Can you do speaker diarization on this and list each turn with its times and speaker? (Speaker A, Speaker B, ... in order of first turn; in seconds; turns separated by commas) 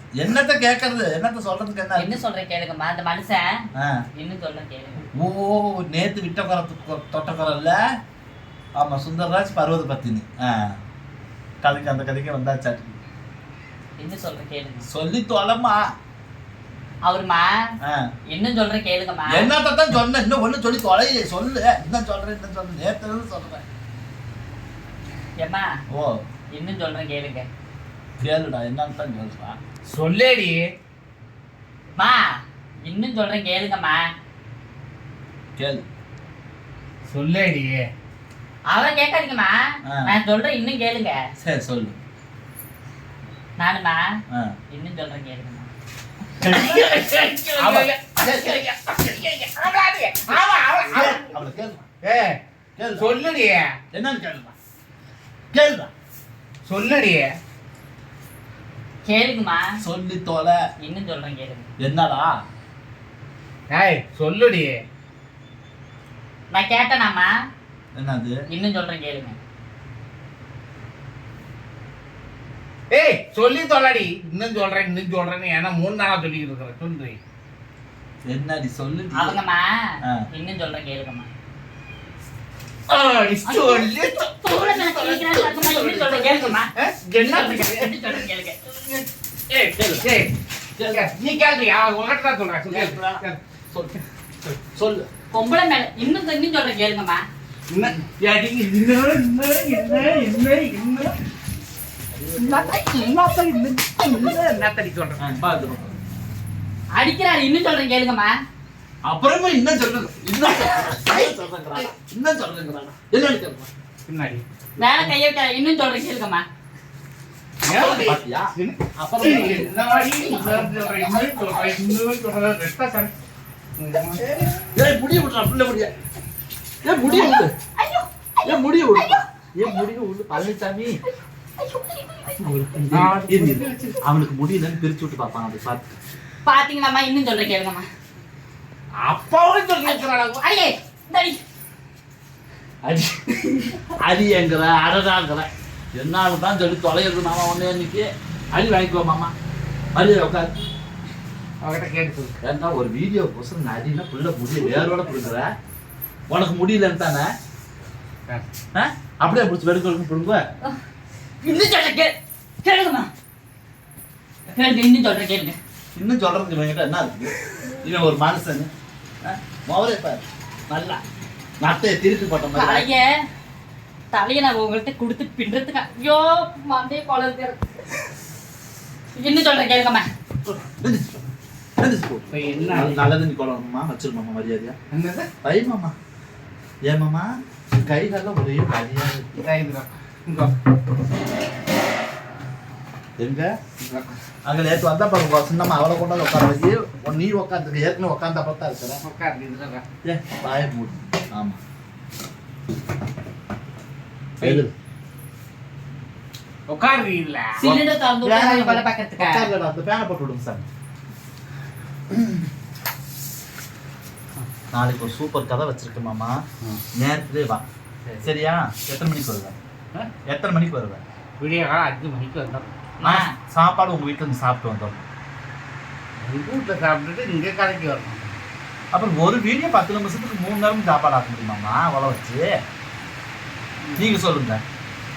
Speaker A: 0.1-2.1, Speaker B: 1.9-3.5, Speaker B: 4.2-5.1, Speaker A: 5.2-7.8, Speaker A: 8.8-10.8, Speaker A: 11.6-13.0, Speaker B: 14.0-14.8, Speaker A: 14.9-15.8, Speaker B: 17.0-17.6, Speaker B: 18.3-19.5, Speaker A: 19.3-23.6, Speaker B: 25.4-25.7, Speaker A: 25.9-26.2, Speaker B: 26.5-27.5, Speaker A: 28.2-29.6, Speaker C: 29.9-30.6, Speaker B: 32.0-32.3, Speaker B: 32.8-34.0, Speaker A: 35.5-35.9, Speaker C: 37.1-37.9, Speaker B: 38.7-41.2, Speaker A: 39.9-40.1, Speaker A: 41.4-42.0, Speaker B: 43.6-44.0, Speaker B: 44.7-45.7, Speaker A: 46.4-48.6, Speaker C: 46.6-51.3, Speaker A: 50.9-51.8, Speaker C: 52.0-52.4, Speaker A: 52.8-53.1, Speaker C: 53.0-53.7, Speaker A: 53.9-54.5, Speaker A: 55.5-55.9, Speaker C: 56.6-57.3, Speaker B: 59.0-59.7, Speaker A: 59.8-60.6, Speaker B: 60.8-61.7, Speaker A: 61.8-62.3, Speaker C: 63.7-64.8, Speaker B: 66.5-67.3, Speaker A: 68.0-68.4, Speaker B: 68.5-69.4, Speaker C: 72.9-77.2, Speaker A: 78.2-79.4, Speaker B: 79.1-79.8, Speaker B: 80.3-81.3, Speaker C: 82.9-89.1, Speaker B: 83.5-88.6, Speaker A: 89.5-90.1, Speaker C: 90.0-93.4, Speaker A: 90.8-91.1, Speaker A: 92.7-94.0, Speaker A: 94.6-95.1, Speaker B: 95.3-97.2, Speaker C: 97.7-101.2, Speaker A: 102.1-102.8, Speaker C: 102.4-105.3, Speaker A: 105.2-106.0, Speaker B: 106.9-108.3, Speaker A: 109.0-113.7, Speaker B: 110.4-111.3, Speaker C: 114.1-114.4, Speaker B: 114.8-116.4, Speaker C: 117.6-123.1, Speaker A: 117.7-119.7, Speaker C: 123.8-124.7, Speaker A: 124.7-125.9, Speaker A: 126.8-127.5, Speaker B: 127.0-129.7, Speaker A: 128.4-131.0, Speaker B: 131.6-132.6, Speaker C: 132.4-134.0, Speaker A: 132.9-136.0, Speaker B: 136.4-137.9, Speaker C: 139.0-140.4, Speaker B: 139.8-141.4, Speaker B: 142.9-143.8, Speaker A: 144.0-149.3, Speaker A: 149.9-150.5, Speaker C: 151.6-152.4, Speaker A: 152.4-155.5, Speaker A: 156.3-157.3, Speaker A: 158.7-160.4, Speaker B: 161.4-163.1, Speaker B: 164.5-165.6, Speaker A: 165.9-168.7, Speaker B: 167.6-167.9, Speaker A: 169.2-171.0, Speaker A: 171.6-172.9, Speaker B: 172.5-173.0, Speaker B: 174.1-177.7, Speaker B: 179.2-180.1, Speaker A: 180.4-181.2, Speaker A: 181.8-184.8, Speaker C: 182.3-183.1, Speaker C: 184.9-185.3, Speaker A: 185.4-185.9, Speaker A: 186.8-189.3, Speaker C: 189.3-190.6, Speaker A: 193.2-193.5, Speaker C: 193.8-194.1, Speaker A: 194.4-199.0, Speaker C: 199.0-199.8, Speaker A: 200.0-201.6, Speaker C: 204.4-204.7, Speaker A: 204.4-204.7, Speaker C: 206.7-207.6, Speaker B: 207.6-209.5, Speaker A: 207.6-210.7, Speaker A: 212.1-212.4, Speaker A: 214.7-216.4, Speaker A: 216.9-217.6, Speaker C: 218.0-218.3, Speaker A: 218.2-219.6, Speaker A: 220.2-221.0, Speaker C: 221.4-222.7, Speaker B: 223.0-223.3, Speaker A: 223.0-225.1, Speaker C: 226.2-228.3, Speaker A: 228.9-232.5, Speaker C: 233.8-234.2, Speaker A: 233.9-234.6